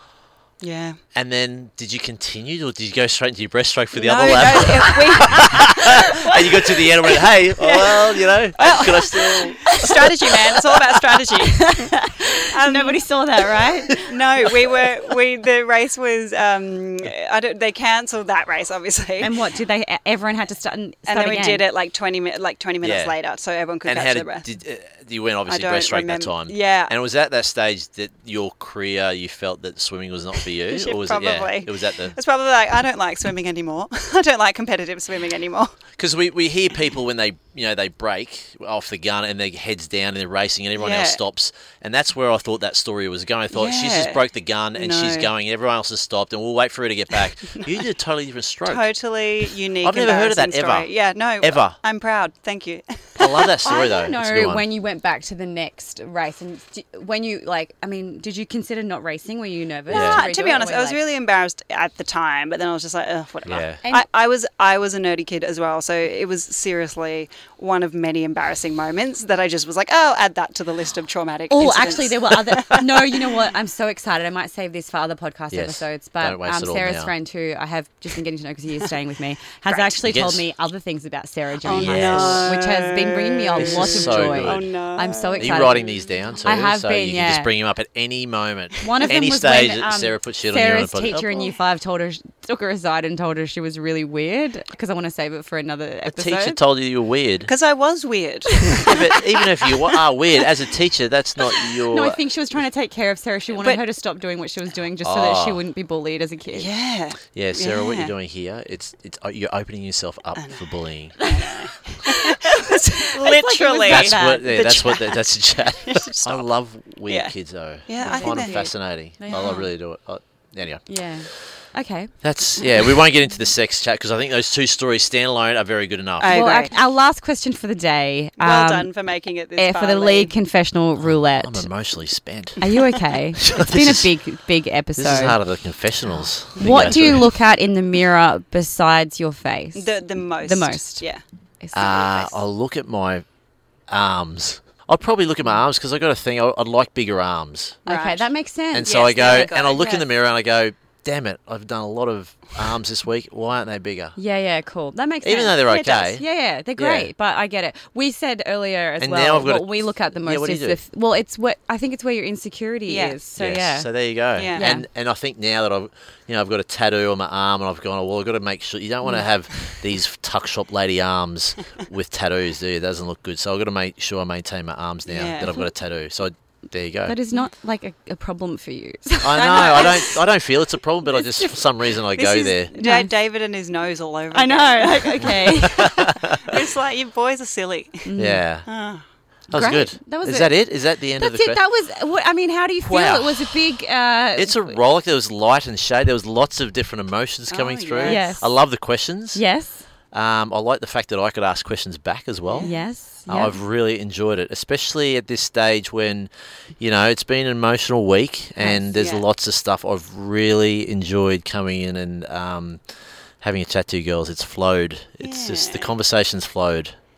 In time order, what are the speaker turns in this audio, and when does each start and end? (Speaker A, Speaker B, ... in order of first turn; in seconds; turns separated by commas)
Speaker A: 0.6-1.0, Speaker B: 1.1-10.3, Speaker A: 3.9-6.9, Speaker C: 6.0-6.3, Speaker A: 7.5-13.0, Speaker C: 9.6-10.6, Speaker C: 11.2-14.2, Speaker A: 13.9-19.4, Speaker C: 19.2-21.7, Speaker A: 21.1-24.4, Speaker B: 22.8-23.1, Speaker B: 23.8-32.1, Speaker A: 25.5-26.9, Speaker A: 30.6-35.7, Speaker B: 36.0-48.9, Speaker A: 40.8-41.2, Speaker A: 43.5-44.2, Speaker A: 44.7-45.3, Speaker A: 48.6-53.6, Speaker B: 49.8-50.9, Speaker B: 51.4-51.8, Speaker B: 53.2-54.6, Speaker C: 53.6-61.0, Speaker B: 59.9-60.3, Speaker A: 59.9-73.3, Speaker B: 63.4-63.8, Speaker C: 71.5-85.8, Speaker B: 75.5-77.1, Speaker B: 80.0-80.4, Speaker B: 81.6-82.6, Speaker A: 81.6-86.1, Speaker B: 83.5-84.7, Speaker B: 85.4-91.2, Speaker C: 86.4-87.5, Speaker C: 88.8-96.6, Speaker B: 96.1-97.5, Speaker A: 97.5-100.0, Speaker B: 98.8-102.2, Speaker C: 101.9-106.7, Speaker B: 105.0-105.6, Speaker A: 106.5-108.1, Speaker B: 107.3-111.2, Speaker A: 111.2-116.4, Speaker C: 111.2-114.7, Speaker B: 113.8-120.8, Speaker A: 117.1-117.3, Speaker A: 117.8-118.7, Speaker C: 118.0-119.6, Speaker A: 119.3-119.6, Speaker C: 120.9-122.1, Speaker B: 122.2-126.5, Speaker A: 126.2-126.7, Speaker C: 126.2-128.9, Speaker A: 128.4-130.3, Speaker C: 129.6-131.6, Speaker B: 131.0-132.6, Speaker C: 132.6-135.4, Speaker B: 133.4-134.1, Speaker B: 135.0-137.3, Speaker A: 136.6-137.2, Speaker C: 136.6-141.0, Speaker A: 139.7-141.2, Speaker C: 141.6-142.2, Speaker B: 141.7-143.2, Speaker B: 143.9-147.8, Speaker A: 147.8-148.3, Speaker C: 147.8-149.6, Speaker B: 148.7-154.2, Speaker A: 148.8-150.1, Speaker C: 154.2-163.9, Speaker B: 155.2-156.2, Speaker B: 156.8-157.1, Speaker B: 159.0-160.8, Speaker A: 162.9-163.2, Speaker B: 163.4-177.1, Speaker A: 164.3-164.7, Speaker C: 164.5-164.8, Speaker A: 175.1-175.5, Speaker C: 177.0-180.2, Speaker B: 179.2-182.7, Speaker A: 181.1-188.1, Speaker C: 182.7-183.1, Speaker C: 184.3-186.1, Speaker B: 185.6-186.6, Speaker C: 188.0-188.4, Speaker B: 188.2-188.7, Speaker A: 188.7-189.0, Speaker C: 189.5-190.6, Speaker B: 189.5-191.6, Speaker C: 191.2-194.8, Speaker B: 192.8-193.6, Speaker B: 194.3-199.4, Speaker A: 197.5-198.4, Speaker C: 198.0-198.5, Speaker C: 199.3-199.9, Speaker B: 200.1-212.8, Speaker A: 202.5-202.8, Speaker C: 202.6-203.6, Speaker A: 208.6-209.2, Speaker B: 213.4-216.9, Speaker A: 215.2-215.9